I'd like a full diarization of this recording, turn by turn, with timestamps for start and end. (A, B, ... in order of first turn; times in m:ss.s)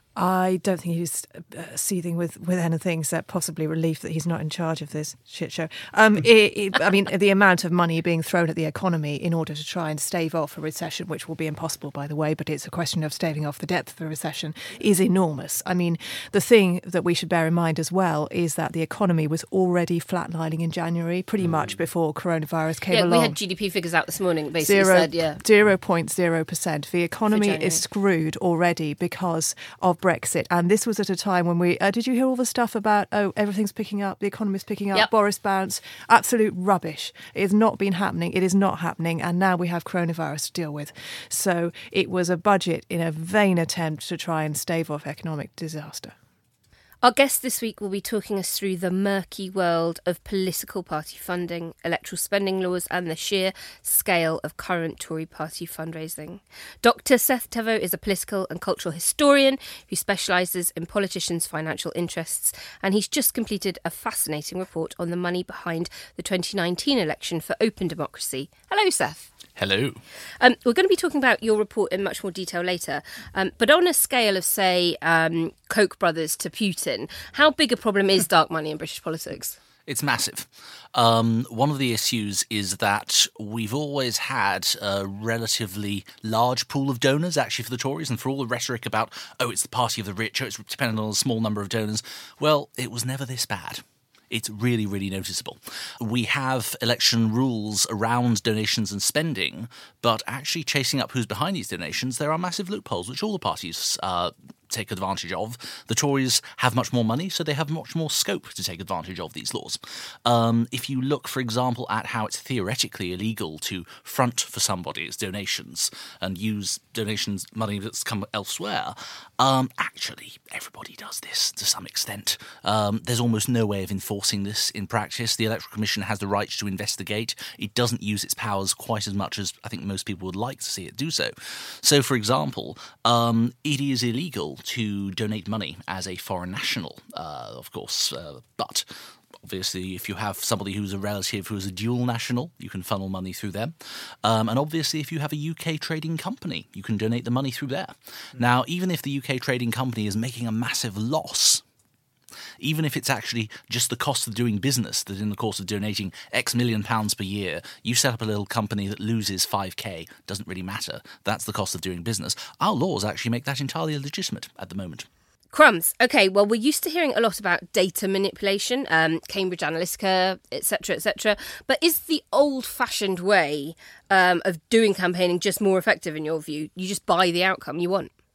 0:00.2-0:23.4 A
0:22.9-0:25.4 B
0:24.6-0:46.1 A
0:27.3-0:27.8 B
0:47.0-1:09.3 B
1:09.6-1:10.0 C
1:10.4-1:19.6 B
1:19.9-2:18.8 C
2:19.4-2:31.6 C
2:32.6-2:45.1 C
2:45.5-2:58.1 B